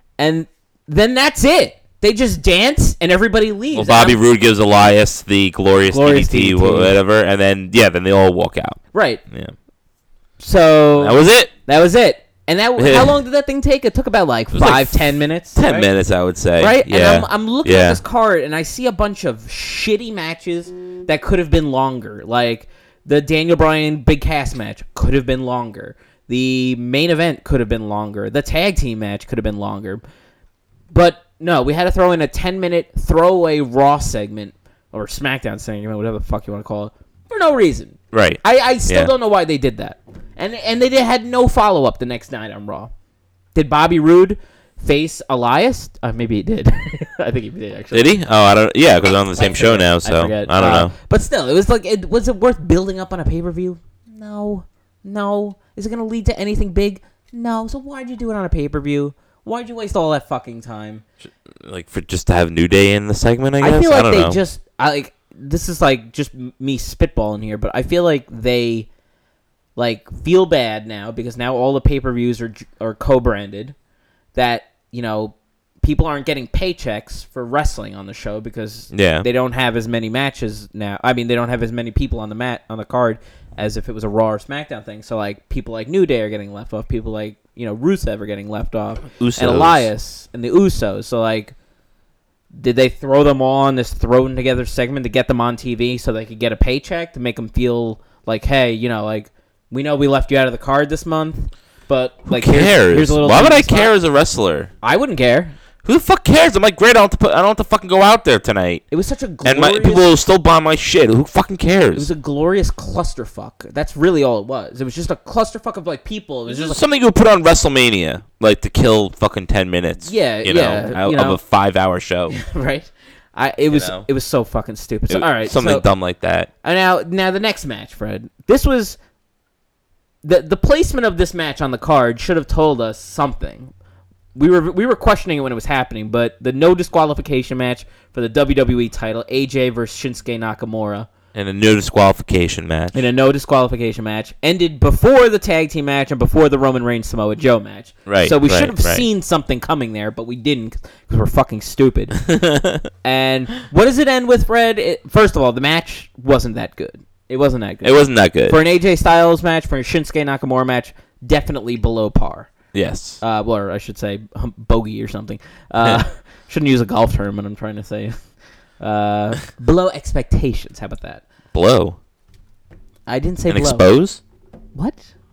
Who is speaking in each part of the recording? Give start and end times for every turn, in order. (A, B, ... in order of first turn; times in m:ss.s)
0:00.2-0:04.2 A
0:03.7-0:09.5 B
0:05.9-0:07.0 A
0:08.9-0:09.2 A
0:10.4-0:15.9 A
0:11.0-0:11.5 B
0:12.8-0:13.2 B
0:14.5-0:18.0 B
0:16.6-0:30.0 A
0:30.9-0:42.9 A
0:38.1-0:39.1 B
0:43.5-0:48.2 A
0:47.9-0:50.9 B
0:49.4-1:01.0 A
1:01.6-1:04.4 B
1:03.6-1:08.9 A
1:09.8-1:13.8 A
1:14.3-1:31.6 A
1:18.9-1:19.3 B
1:29.2-1:29.9 B
1:32.6-1:43.9 A
1:42.3-1:44.7 B
1:44.8-1:45.6 A
1:45.8-1:48.8 B
1:48.9-1:50.1 A
1:49.4-1:52.1 B
1:52.0-1:56.8 A
1:56.5-2:02.4 B
2:00.0-2:01.4 A
2:02.3-2:05.9 A
2:03.7-2:04.1 B
2:05.1-2:06.5 B
2:06.6-2:09.0 A
2:10.2-2:13.7 A
2:14.4-2:21.1 A
2:21.3-2:23.0 B
2:22.9-2:32.3 A
2:28.1-2:29.1 B
2:32.2-2:32.9 B
2:33.0-2:42.5 A
2:37.8-2:38.6 B
2:42.7-2:43.2 B
2:43.2-2:48.2 A
2:48.8-2:51.2 A
2:51.5-2:52.0 B
2:53.1-2:53.9 A
2:53.5-2:54.2 B
2:54.8-2:55.1 A